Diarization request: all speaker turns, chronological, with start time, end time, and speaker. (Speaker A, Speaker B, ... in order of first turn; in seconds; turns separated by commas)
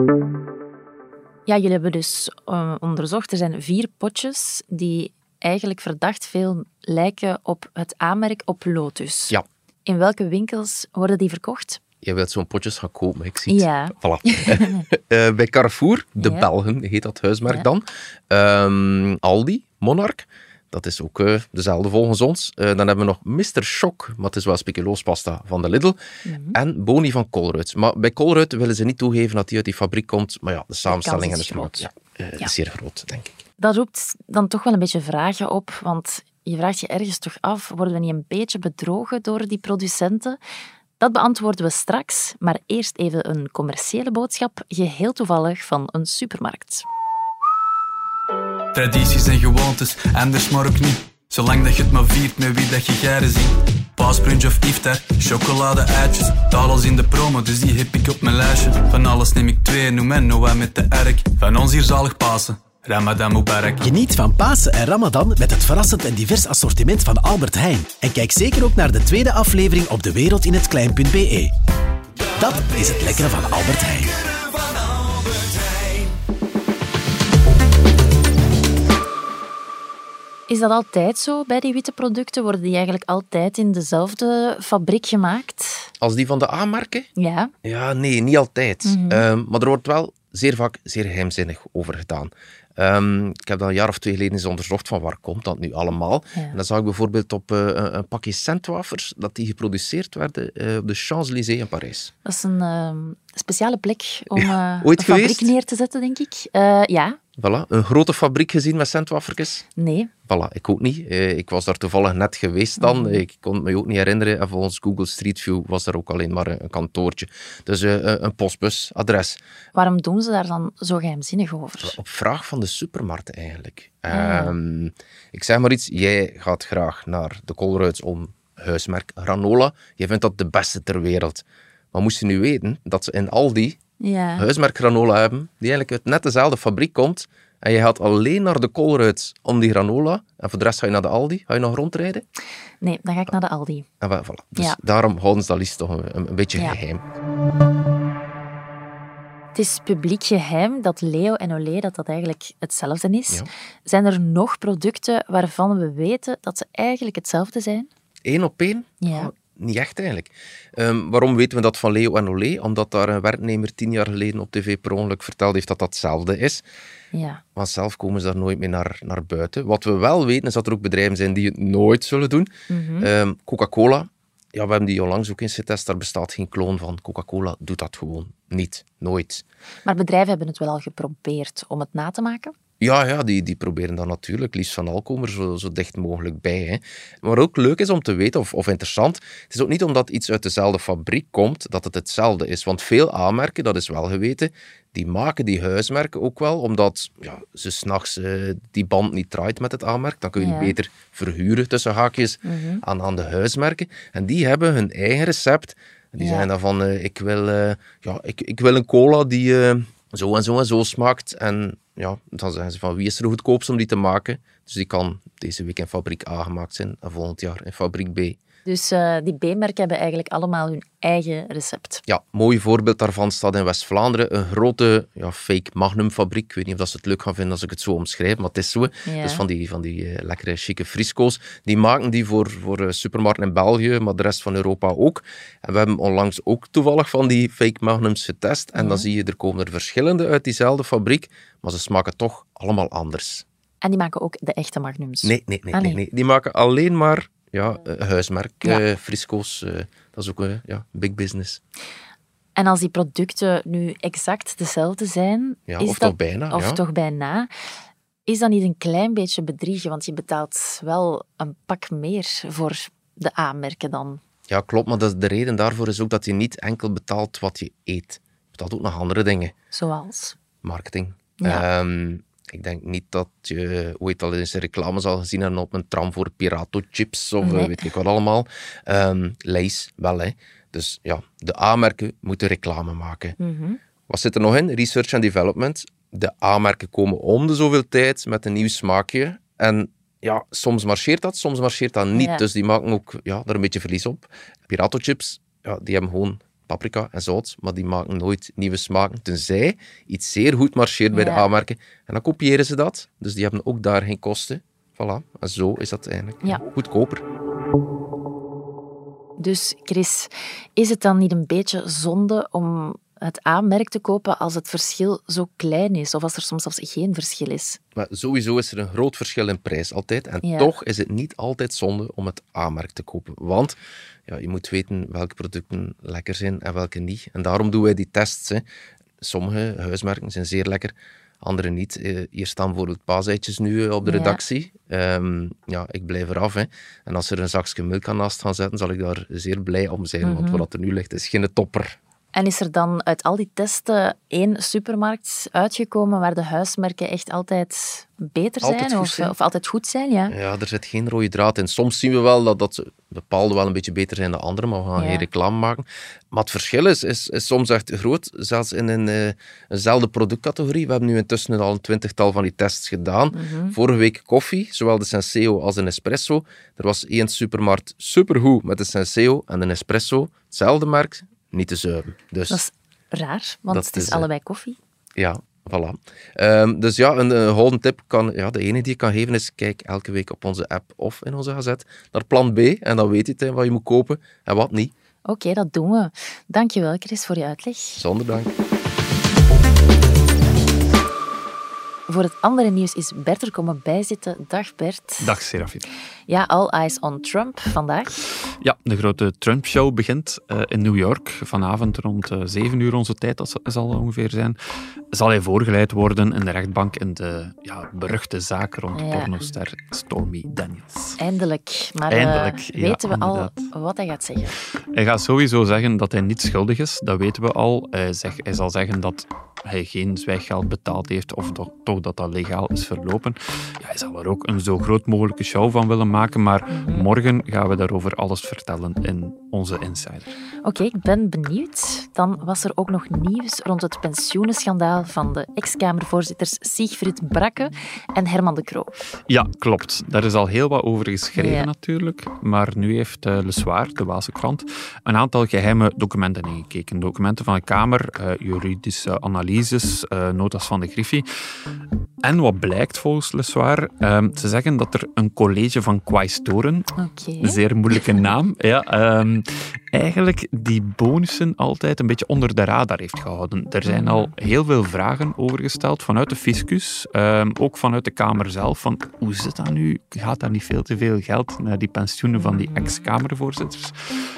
Speaker A: 1.4-11.8, Speaker B: 12.0-26.0, Speaker A: 13.5-14.8, Speaker A: 16.2-16.5, Speaker A: 26.2-26.6, Speaker B: 26.5-33.4, Speaker A: 30.9-31.9, Speaker A: 33.6-40.4, Speaker A: 41.0-46.9, Speaker C: 48.7-63.9, Speaker D: 63.9-71.5, Speaker D: 72.4-74.2, Speaker A: 80.5-85.9, Speaker B: 86.0-87.1, Speaker A: 87.2-87.5, Speaker B: 87.6-102.1, Speaker A: 88.8-89.2, Speaker A: 102.2-107.2, Speaker B: 104.4-105.5, Speaker B: 107.4-109.6, Speaker A: 109.8-110.1, Speaker B: 110.3-119.4, Speaker A: 112.8-113.2, Speaker A: 119.7-122.0, Speaker B: 121.8-133.8, Speaker A: 124.1-124.5, Speaker A: 134.0-134.5, Speaker B: 134.4-142.2, Speaker A: 142.8-143.9, Speaker B: 144.0-147.0, Speaker A: 149.5-157.9, Speaker B: 158.2-166.6, Speaker A: 159.0-159.3, Speaker A: 167.1-167.4, Speaker B: 167.5-179.4, Speaker A: 172.7-173.1, Speaker A: 179.8-182.5, Speaker B: 182.8-218.4, Speaker A: 200.4-200.7, Speaker A: 202.4-202.8, Speaker A: 206.2-206.5, Speaker A: 218.7-222.0, Speaker B: 222.1-243.4, Speaker A: 229.1-229.4, Speaker A: 238.7-239.1, Speaker A: 243.8-246.0, Speaker B: 245.2-251.6, Speaker A: 252.6-257.5, Speaker B: 255.7-256.8, Speaker A: 258.2-264.2, Speaker B: 264.5-269.5, Speaker A: 269.7-270.4, Speaker B: 270.6-283.4, Speaker A: 271.4-271.6, Speaker A: 277.4-277.8, Speaker A: 283.4-283.8, Speaker B: 284.1-307.2, Speaker A: 292.1-292.4, Speaker A: 301.1-301.5, Speaker A: 309.4-317.8, Speaker B: 317.9-328.6, Speaker A: 320.4-320.7, Speaker B: 329.2-342.0, Speaker A: 334.0-334.4, Speaker A: 340.2-340.6, Speaker A: 342.3-350.3, Speaker B: 348.6-349.3, Speaker B: 350.3-372.6, Speaker A: 355.0-355.3, Speaker A: 363.3-363.8, Speaker A: 372.5-374.8, Speaker B: 373.7-374.3, Speaker B: 375.2-384.9, Speaker A: 385.2-388.0, Speaker B: 387.9-388.6, Speaker A: 392.1-395.4, Speaker E: 395.2-395.9, Speaker A: 396.3-398.2, Speaker E: 398.6-404.6, Speaker E: 405.1-411.2, Speaker A: 408.9-409.3, Speaker A: 411.2-414.6, Speaker E: 412.1-413.6, Speaker E: 414.9-430.3, Speaker A: 426.7-427.1, Speaker A: 430.6-439.0, Speaker E: 439.3-451.2, Speaker A: 441.3-441.7, Speaker E: 452.2-473.9, Speaker A: 456.9-458.2, Speaker A: 463.8-464.3, Speaker A: 472.4-472.7